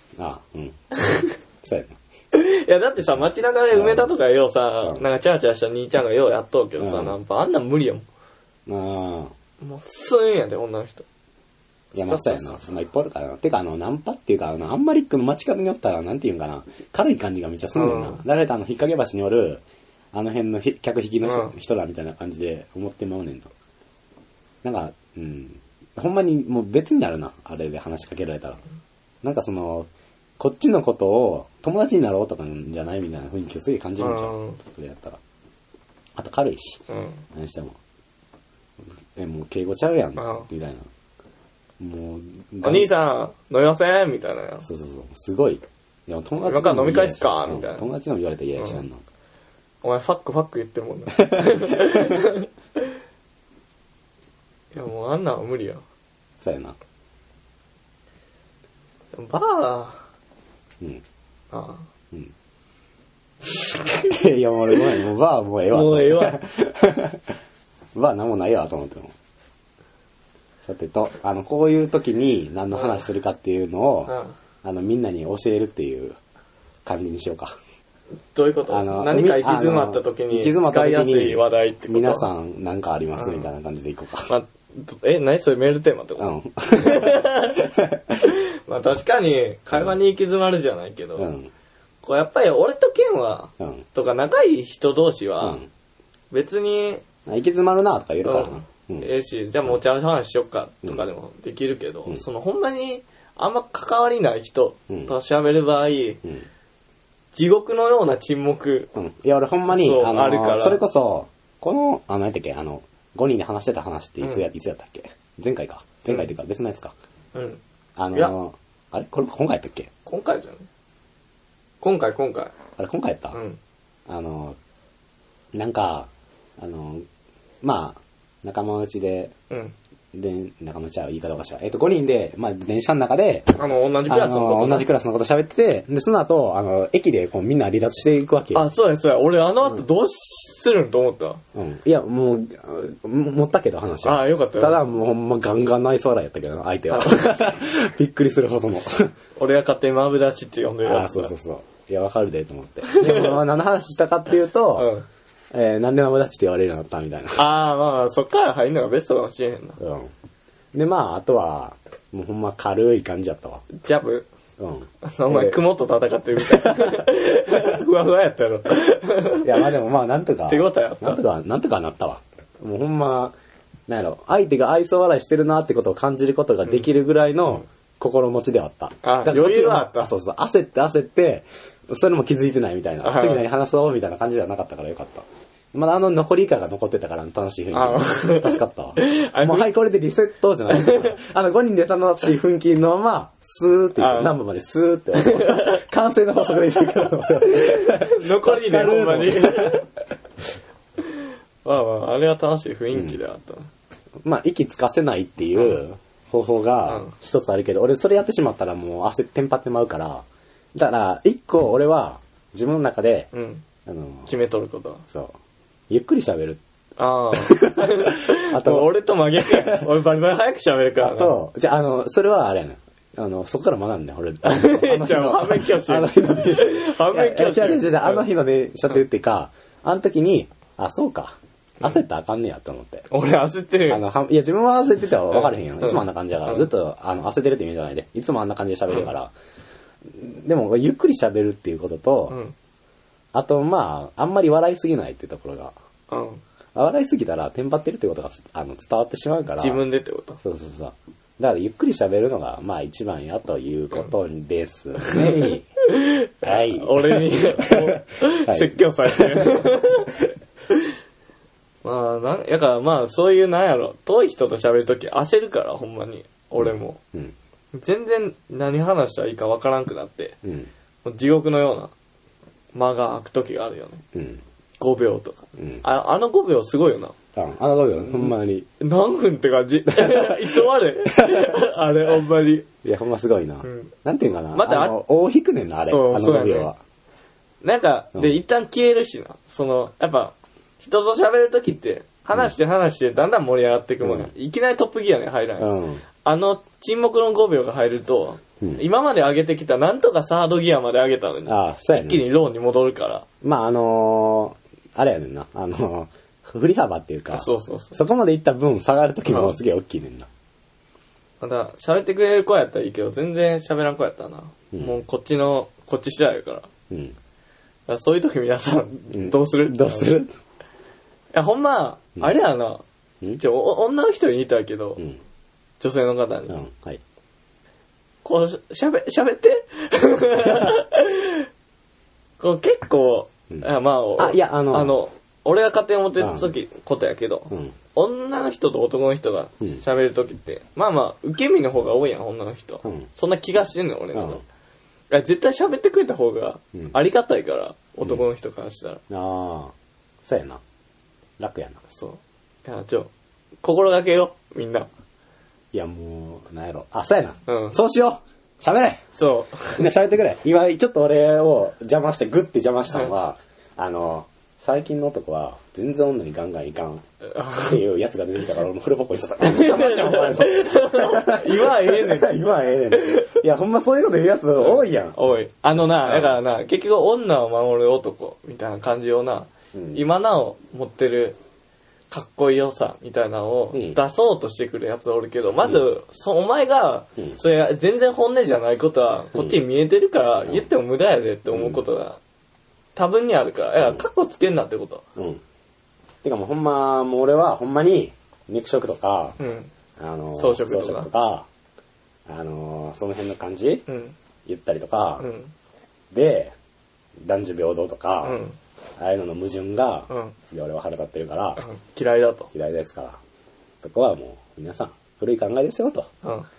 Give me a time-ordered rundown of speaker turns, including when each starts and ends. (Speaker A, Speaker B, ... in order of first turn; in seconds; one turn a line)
Speaker A: 0.1-0.8
Speaker B: 0.9-1.3
Speaker A: 1.6-2.0
Speaker B: 2.3-8.0
Speaker A: 3.0-4.1
Speaker A: 6.8-7.2
Speaker A: 8.7-9.3
Speaker B: 9.6-11.0
Speaker A: 11.9-19.6
Speaker B: 11.9-12.7
Speaker B: 17.7-18.2
Speaker A: 20.1-23.5
Speaker B: 21.2-21.5
Speaker A: 24.6-28.6
Speaker A: 29.2-35.2
Speaker B: 34.0-34.6
Speaker A: 36.1-37.8
Speaker B: 36.9-37.2
Speaker A: 39.1-40.9
Speaker B: 40.2-40.5
Speaker A: 41.8-42.9
Speaker B: 42.6-44.6
Speaker A: 44.6-49.0
Speaker B: 46.4-47.8
Speaker B: 49.8-52.9
Speaker A: 51.2-52.2
Speaker B: 54.7-55.8
Speaker A: 56.4-56.8
Speaker B: 59.1-60.0
Speaker B: 61.5-61.8
Speaker A: 63.7-67.3
Speaker B: 65.7-66.4
Speaker A: 67.9-69.1
Speaker A: 70.6-74.1
Speaker B: 72.7-73.0
Speaker B: 74.0-74.4
Speaker A: 74.6-76.2
Speaker A: 76.8-77.5
Speaker B: 78.3-82.3
Speaker A: 78.7-84.3
Speaker B: 83.2-83.5
Speaker B: 84.3-87.6
Speaker A: 86.2-88.3
Speaker B: 88.2-91.3
Speaker A: 89.7-90.0
Speaker A: 91.2-91.5
Speaker B: 92.0-95.6
Speaker A: 93.6-93.8
Speaker A: 95.4-95.7
Speaker B: 96.3-97.0
Speaker A: 97.2-99.1
Speaker B: 98.2-106.2
Speaker B: 107.3-108.9
Speaker A: 108.9-116.9
Speaker B: 109.7-110.8
Speaker B: 117.3-117.6
Speaker A: 118.0-119.9
Speaker B: 120.0-120.7
Speaker B: 121.8-122.5
Speaker A: 122.8-123.4
Speaker B: 123.3-123.6
Speaker A: 124.1-124.6
Speaker A: 125.5-127.0
Speaker A: 127.6-129.3
Speaker A: 130.1-138.7
Speaker B: 133.6-134.9
Speaker B: 138.5-141.4
Speaker A: 141.5-149.1
Speaker B: 144.0-144.8
Speaker B: 146.9-147.5
Speaker B: 149.4-151.3
Speaker A: 150.8-154.9
Speaker B: 152.9-153.3
Speaker B: 154.8-155.1
Speaker A: 155.5-157.5
Speaker B: 157.3-159.8
Speaker A: 159.8-160.1
Speaker A: 160.7-163.6
Speaker B: 163.7-164.3
Speaker A: 164.6-165.6
Speaker B: 165.0-169.7
Speaker A: 166.3-167.1
Speaker A: 169.4-173.3
Speaker B: 170.5-171.2
Speaker A: 173.9-199.8
Speaker B: 179.0-180.1
Speaker B: 183.0-183.4
Speaker B: 187.7-189.7
Speaker B: 190.7-191.2
Speaker B: 194.0-194.3
Speaker B: 195.2-195.8
Speaker B: 197.4-199.8
Speaker B: 201.6-203.7
Speaker A: 202.9-203.2
Speaker A: 204.2-213.3
Speaker B: 206.9-207.1
Speaker B: 213.3-213.6
Speaker A: 213.8-214.3
Speaker B: 214.2-215.0
Speaker A: 215.1-215.3
Speaker A: 215.9-216.6
Speaker B: 217.0-221.4
Speaker A: 217.3-219.8
Speaker A: 221.0-233.1
Speaker B: 224.4-228.3
Speaker B: 233.1-234.0
Speaker A: 233.9-239.3
Speaker B: 235.3-236.7
Speaker A: 240.1-242.4
Speaker A: 243.3-245.7
Speaker B: 246.1-246.4
Speaker A: 246.7-249.8
Speaker B: 249.6-250.4
Speaker A: 250.4-255.7
Speaker B: 255.0-260.1
Speaker A: 256.4-259.6
Speaker B: 261.8-267.0
Speaker A: 266.6-267.3
Speaker B: 267.7-270.4
Speaker A: 270.4-270.7
Speaker B: 271.0-271.9
Speaker B: 272.7-274.0
Speaker A: 274.1-274.4
Speaker B: 274.8-277.1
Speaker A: 275.6-275.8
Speaker A: 277.3-278.7
Speaker B: 278.1-282.7
Speaker A: 279.9-281.6
Speaker A: 282.8-286.8
Speaker B: 283.6-283.9
Speaker B: 284.5-284.9
Speaker B: 285.8-286.7
Speaker B: 287.6-295.7
Speaker A: 294.0-294.3
Speaker A: 295.6-296.0
Speaker B: 296.2-303.2
Speaker A: 301.5-302.2
Speaker A: 303.4-310.3
Speaker B: 307.3-308.0
Speaker B: 309.2-309.6
Speaker B: 311.4-316.7
Speaker A: 314.7-315.0
Speaker A: 316.9-317.1
Speaker B: 317.9-320.2
Speaker A: 319.1-320.3
Speaker B: 321.3-322.8
Speaker B: 323.4-325.0
Speaker B: 325.8-326.6
Speaker A: 326.5-327.0
Speaker B: 328.2-331.5
Speaker A: 330.4-330.7
Speaker B: 332.4-344.4
Speaker A: 333.5-334.9
Speaker A: 336.2-336.5
Speaker A: 337.5-337.8
Speaker A: 344.1-344.4
Speaker B: 345.1-349.0
Speaker A: 349.1-349.7
Speaker A: 350.2-350.6
Speaker A: 351.4-351.8
Speaker B: 351.9-353.1
Speaker B: 353.6-354.9
Speaker A: 355.7-359.0
Speaker B: 357.5-357.8
Speaker B: 359.2-359.9
Speaker A: 359.7-375.2
Speaker B: 367.2-367.8
Speaker B: 369.4-373.4
Speaker B: 374.6-381.4
Speaker A: 375.8-376.4
Speaker A: 379.7-380.0
Speaker B: 382.1-392.2
Speaker A: 383.7-384.0
Speaker A: 389.3-389.6
Speaker A: 391.5-391.8
Speaker B: 392.9-395.0
Speaker A: 395.1-395.4
Speaker A: 396.2-399.4
Speaker B: 399.4-399.7
Speaker A: 400.0-401.5
Speaker B: 400.4-401.1
Speaker A: 402.2-403.8
Speaker B: 403.9-404.1
Speaker A: 404.4-405.2
Speaker B: 405.2-405.5
Speaker A: 406.1-406.5
Speaker A: 407.2-408.4
Speaker B: 408.2-408.6
Speaker A: 409.0-411.6
Speaker B: 410.1-410.3
Speaker B: 411.6-412.5
Speaker A: 412.5-413.2
Speaker A: 413.8-416.1